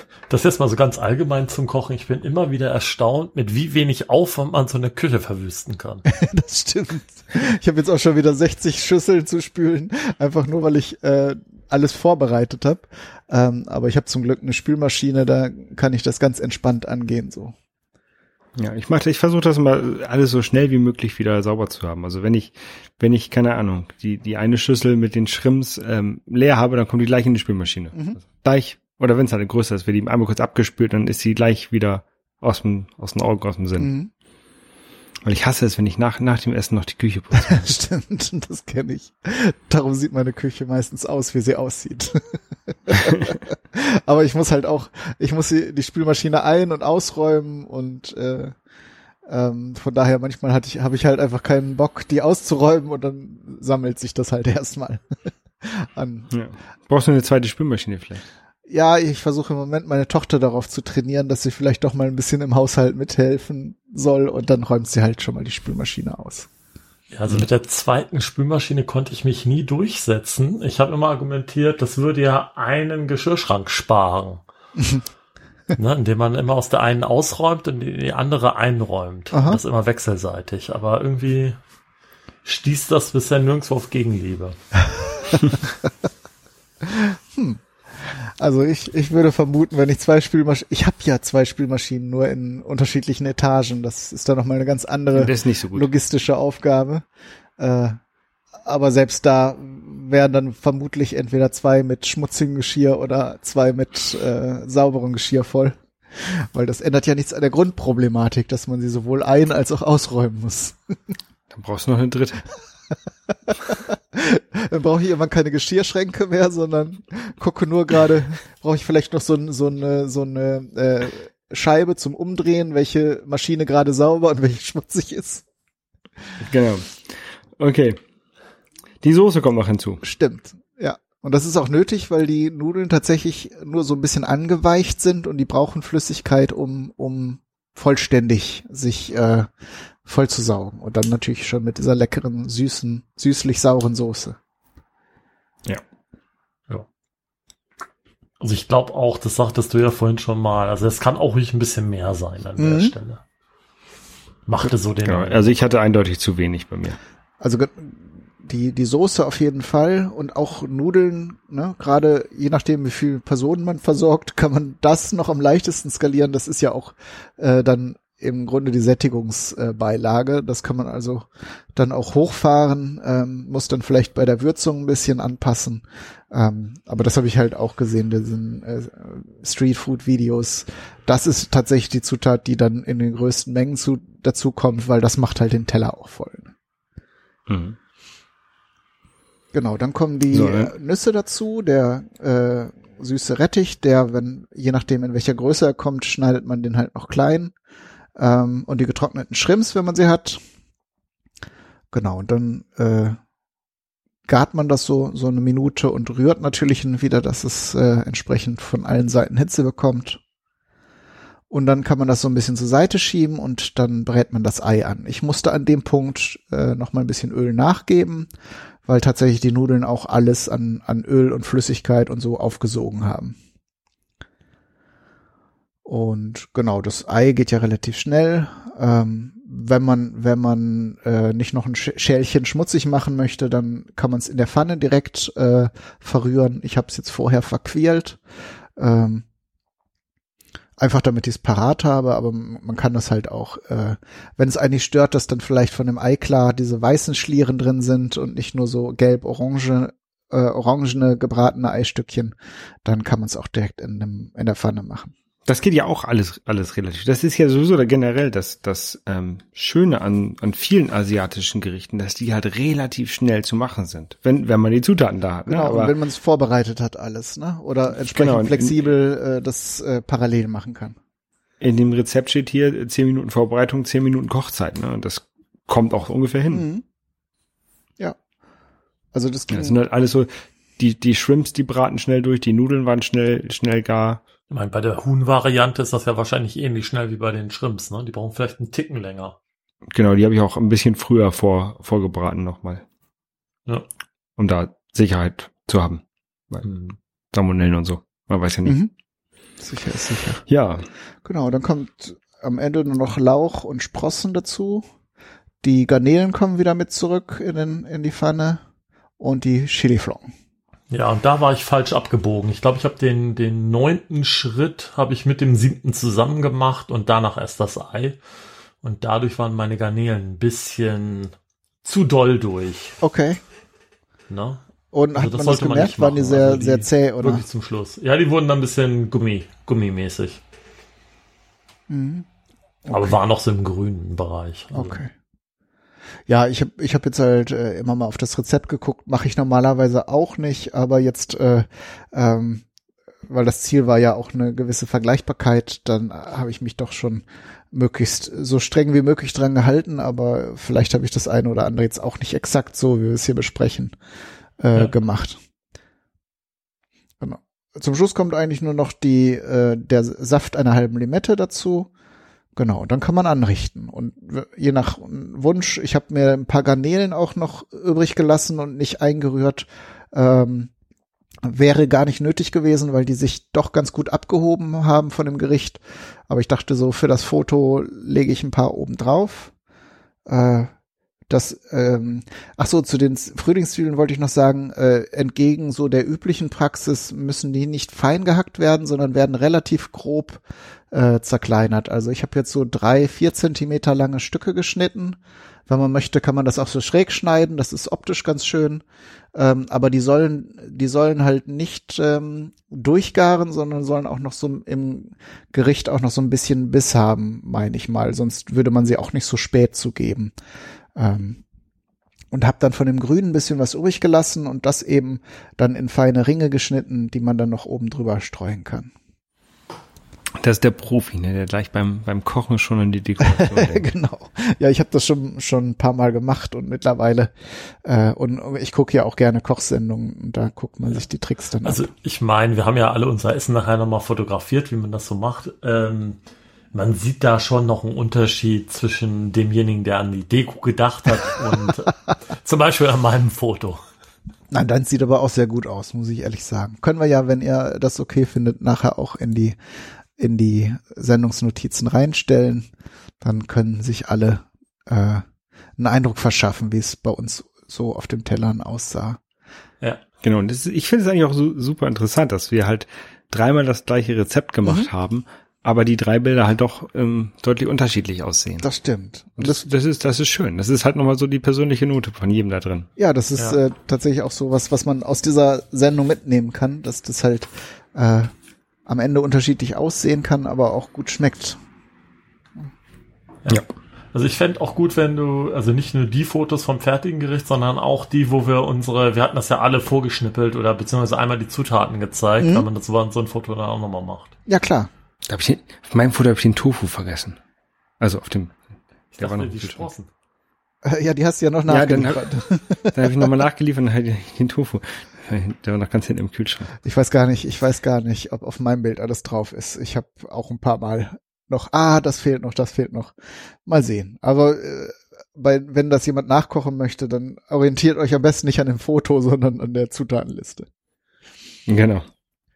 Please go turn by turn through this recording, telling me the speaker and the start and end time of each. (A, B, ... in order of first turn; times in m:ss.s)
0:00.3-0:06.0 A
0:06.1-0:17.6 B
0:18.6-0:33.9 C
0:27.9-0:28.2 B
0:33.8-0:34.1 B
0:35.2-0:37.7 C
0:37.3-0:48.6 B
0:49.3-0:55.0 B
0:55.6-0:56.3 B
0:56.3-0:58.2 C
0:58.7-1:06.5 B
1:07.1-1:14.4 A
1:15.7-1:21.6 A
1:19.3-1:19.6 B
1:22.4-1:24.6 A
1:26.8-1:37.0 B
1:35.1-1:35.9 C
1:37.6-1:38.0 B
1:38.6-1:50.8 B
1:51.5-1:52.5 C
1:53.3-2:05.4 B
2:06.4-2:08.0 C
2:09.0-2:10.0 C
2:10.0-2:19.5 B
2:20.0-2:24.4 B
2:28.4-2:33.2 A
2:32.6-2:32.9 B
2:34.5-2:35.6 A
2:34.6-2:37.0 C
2:37.4-3:06.5 B
3:07.5-3:07.8 C
3:09.5-3:17.5 B
3:10.3-3:10.8 C
3:18.2-3:20.4 B
3:21.9-3:23.2 B
3:24.3-3:30.2 B
3:31.5-3:38.3 B
3:38.8-3:43.4 B
3:45.8-3:58.2 B
3:58.8-3:59.2 B
4:00.8-4:15.1 B
4:15.5-4:25.9 C
4:25.5-4:31.0 B
4:28.0-4:28.8 C
4:31.6-4:36.7 C
4:36.5-4:36.8 B
4:39.1-4:39.8 B
4:39.5-4:44.2 C
4:44.5-4:49.4 A
4:49.9-4:52.8 C
4:54.4-4:56.6 C
4:56.6-4:57.0 A
4:57.3-4:58.8 C
4:58.7-4:58.9 B
4:59.6-5:00.4 B
5:00.5-5:00.9 C
5:01.2-5:04.9 B
5:05.6-5:08.6 B
5:09.2-5:10.3 B
5:10.9-5:18.2 A
5:18.8-5:23.0 A
5:23.0-5:23.4 B
5:24.3-5:24.6 A
5:24.9-5:27.4 B
5:25.2-5:30.4 A
5:31.9-5:32.3 B
5:32.9-5:33.2 B
5:32.9-5:35.0 A
5:34.7-5:35.1 B
5:36.3-5:42.7 B
5:43.3-5:54.0 B
5:54.6-5:55.4 B
5:57.2-6:01.9 B
6:02.6-6:10.7 B
6:11.4-6:19.5 B
6:20.3-6:20.7 B
6:21.3-6:38.8 B
6:39.4-6:50.3 B
6:51.0-6:51.4 B
6:52.3-6:58.9 B
7:00.4-7:03.9 C
7:03.2-7:07.3 B
7:07.8-7:11.9 B
7:11.6-7:16.2 A
7:16.7-7:23.8 A
7:24.5-7:29.6 B
7:30.2-7:32.7 B
7:33.2-7:35.2 B
7:35.8-7:39.2 B
7:40.2-7:48.7 C
7:48.6-7:49.6 B
7:49.4-7:52.9 C
7:53.0-7:58.3 B
7:58.9-8:01.6 B
8:04.1-8:14.3 A
8:12.4-8:12.6 B
8:14.5-8:14.9 B
8:15.3-8:17.4 C
8:18.0-8:18.6 C
8:19.2-8:20.1 A
8:19.2-8:19.9 C
8:20.8-8:23.3 B
8:21.7-8:22.2 C
8:22.9-8:26.8 C
8:26.8-8:33.1 B
8:33.7-8:40.7 B
8:41.7-8:42.1 C